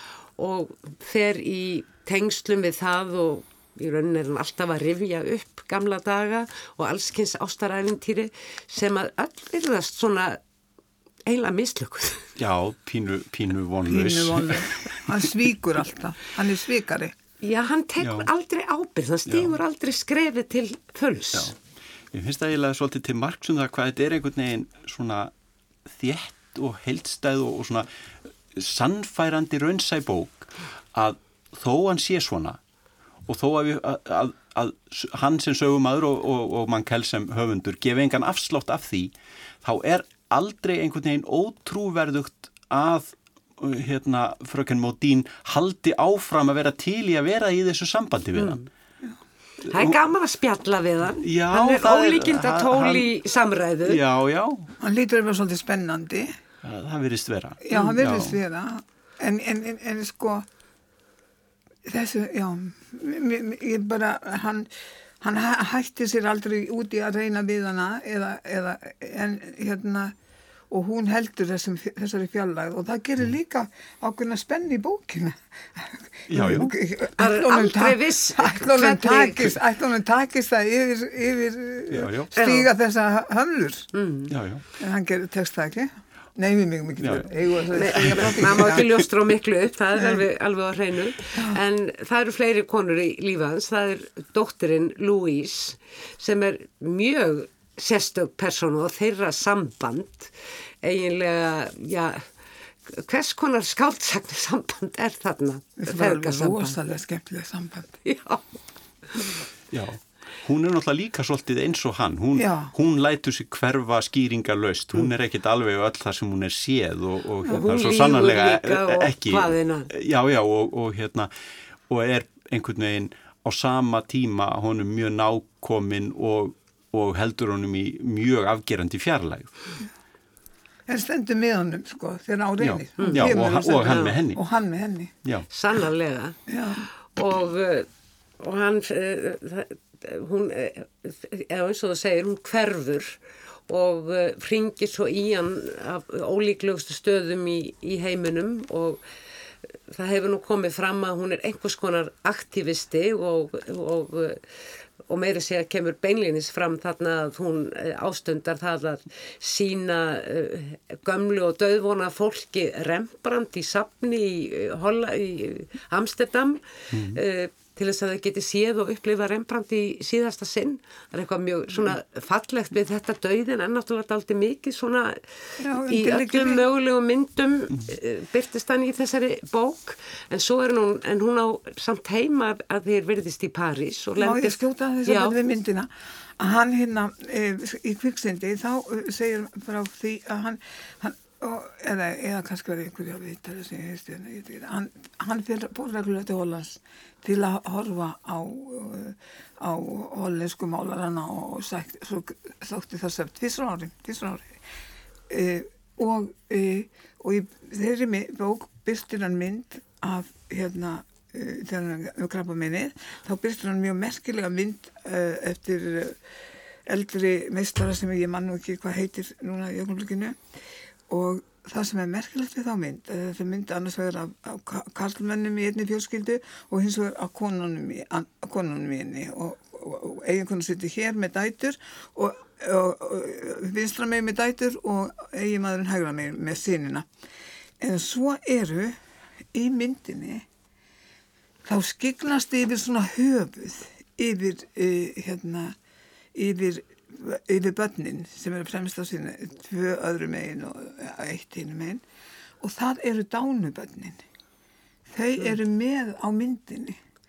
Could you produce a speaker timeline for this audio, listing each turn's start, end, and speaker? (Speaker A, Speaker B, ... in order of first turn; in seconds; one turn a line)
Speaker A: 0.4-10.4
Speaker A: 11.3-12.3
Speaker B: 12.4-14.9
Speaker C: 13.9-17.1
Speaker A: 17.4-21.5
Speaker B: 18.0-18.3
Speaker B: 19.3-19.5
Speaker B: 22.1-25.3
Speaker B: 25.9-27.9
Speaker B: 28.5-32.6
Speaker B: 33.3-48.6
Speaker A: 48.4-48.7
Speaker B: 49.7-50.0
Speaker A: 49.7-54.0
Speaker B: 51.2-53.1
Speaker B: 53.9-54.7
Speaker C: 54.8-56.3
Speaker B: 56.6-58.4
Speaker C: 57.6-60.5
Speaker C: 61.9-64.7
Speaker C: 65.2-70.1
Speaker C: 70.7-83.9
Speaker B: 76.3-76.7
Speaker A: 77.2-79.6
Speaker B: 81.9-82.3
Speaker A: 82.4-82.7
Speaker A: 83.9-84.3
Speaker B: 84.3-84.6
Speaker C: 84.8-88.9
Speaker B: 87.0-87.3
Speaker A: 87.7-102.3
Speaker B: 87.8-88.9
Speaker C: 90.0-90.2
Speaker A: 102.9-106.8
Speaker C: 105.8-108.0
Speaker A: 108.0-108.5
Speaker A: 109.1-109.4
Speaker B: 109.7-121.3
Speaker C: 112.4-112.7
Speaker A: 117.5-119.9
Speaker B: 121.9-129.5
Speaker C: 130.9-135.1
Speaker B: 132.6-134.4
Speaker A: 133.0-134.2
Speaker A: 135.5-136.4
Speaker C: 136.5-136.9
Speaker A: 136.9-137.9
Speaker A: 138.4-149.0
Speaker A: 149.8-185.4
Speaker B: 166.9-167.2
Speaker C: 175.6-176.6
Speaker C: 184.2-204.5
Speaker C: 205.3-216.2
Speaker C: 216.9-220.4
Speaker C: 221.1-237.1
Speaker C: 237.8-239.0
Speaker C: 239.5-240.5
Speaker C: 241.7-245.8
Speaker C: 246.3-252.0
Speaker C: 252.6-254.2
Speaker C: 255.1-257.0